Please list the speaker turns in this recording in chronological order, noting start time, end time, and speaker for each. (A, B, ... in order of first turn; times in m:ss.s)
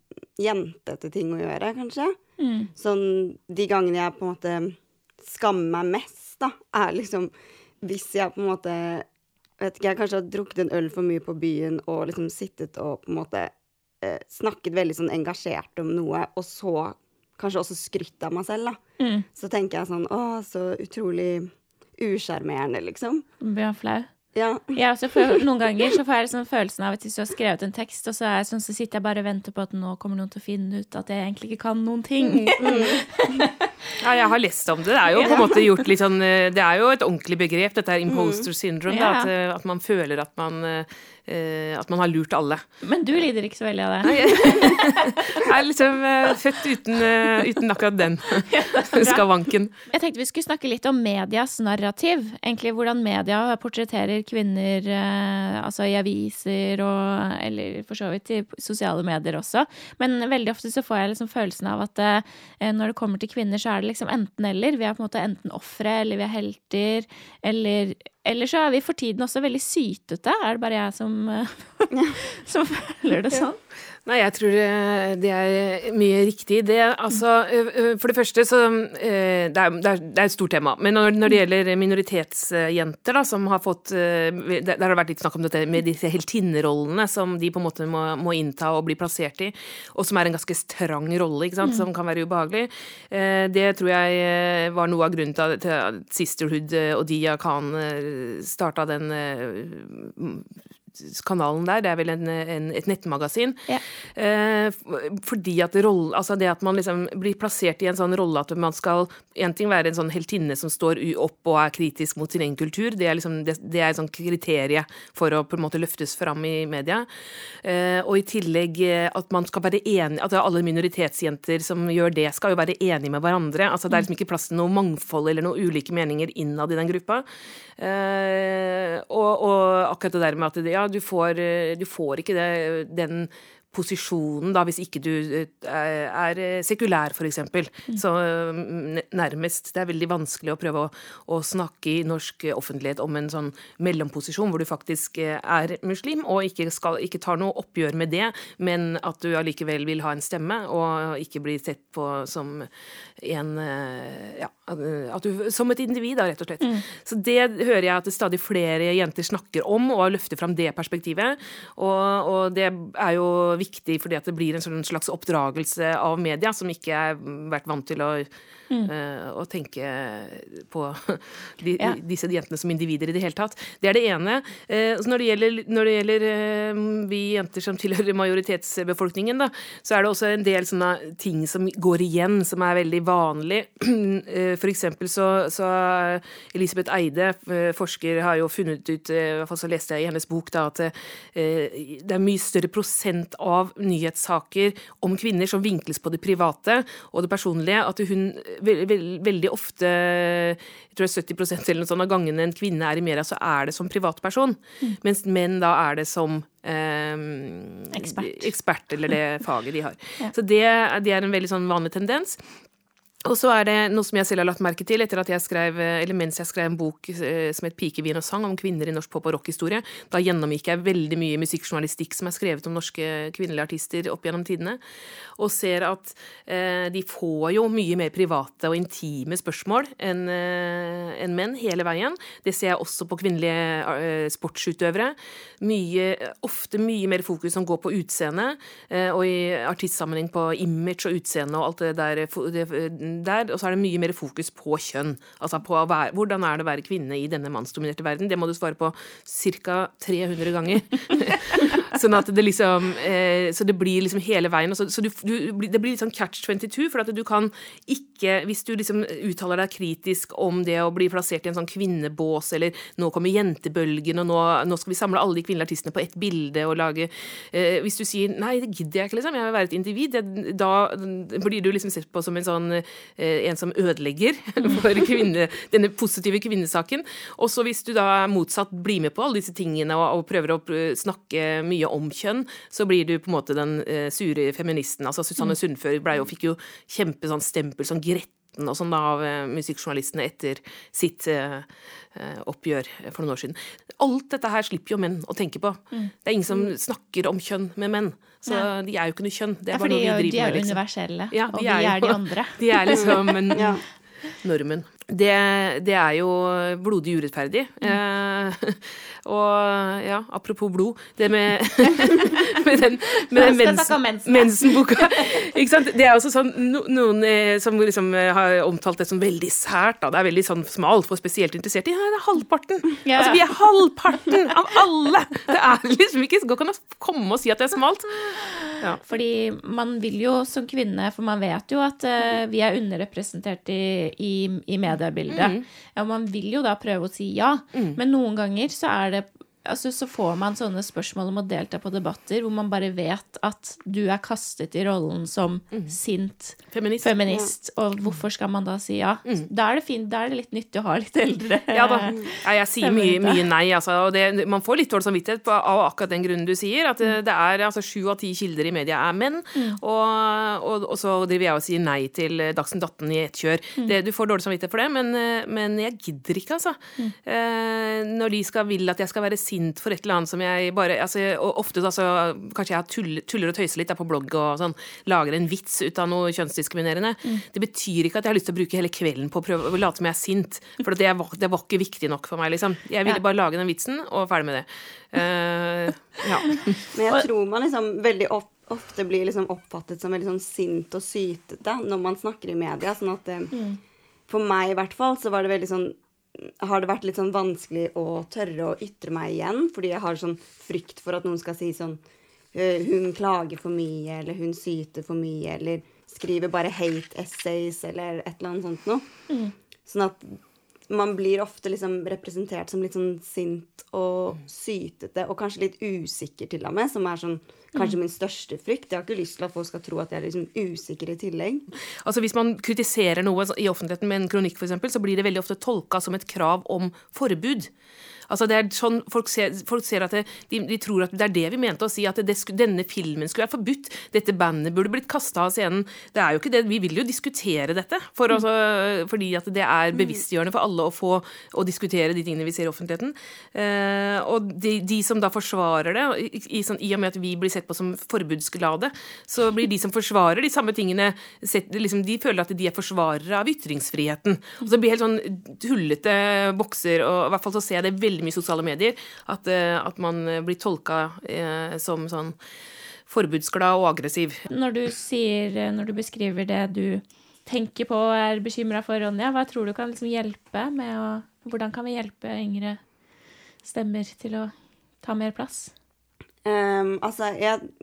0:00.4-0:09.1 A
0:02.4-0:02.7 B
0:09.6-0:18.8 A
0:19.0-0:19.3 B
0:19.4-0:23.2 A
0:23.4-0:24.1 B
0:24.4-0:25.4 A
0:24.8-0:33.5 B
0:32.2-0:33.0 C
0:32.6-0:33.0 A
0:34.0-0:42.6 C
0:35.1-0:35.8 B
0:35.3-0:35.5 A
0:38.1-0:38.5 A
0:38.9-0:39.3 B
0:42.8-0:45.2 B
0:44.0-0:49.8 C
0:48.5-0:49.3 B
0:49.9-1:13.6 B
1:11.9-1:12.2 A
1:14.0-1:57.1 C
1:31.6-1:31.9 B
1:57.6-2:07.3 C
2:07.8-2:48.3 C
2:36.6-2:36.8 B
2:48.8-3:32.4 C
3:27.9-3:28.5 B
3:33.2-3:44.8 C
3:45.4-5:00.8 C
4:59.7-5:03.7 B
5:01.3-5:03.8 C
5:02.9-5:03.8 A
5:04.4-5:29.0 C
5:12.0-5:12.3 B
5:13.3-5:15.6 B
5:23.0-5:23.5 B
5:28.4-5:53.5 B
5:35.3-5:35.7 C
5:37.7-5:38.0 C
5:45.7-5:46.0 C
5:46.7-5:47.2 C
5:51.7-6:26.6 C
5:59.6-5:59.8 B
6:26.9-6:33.6 A
6:33.5-6:33.8 B
6:34.3-6:42.0 A
6:42.5-6:49.1 A
6:49.9-7:01.7 A
7:02.0-7:07.7 C
7:08.3-7:42.4 C
7:43.1-7:44.4 C
7:44.5-7:52.8 B
7:53.6-7:55.7 B
7:56.4-7:57.7 A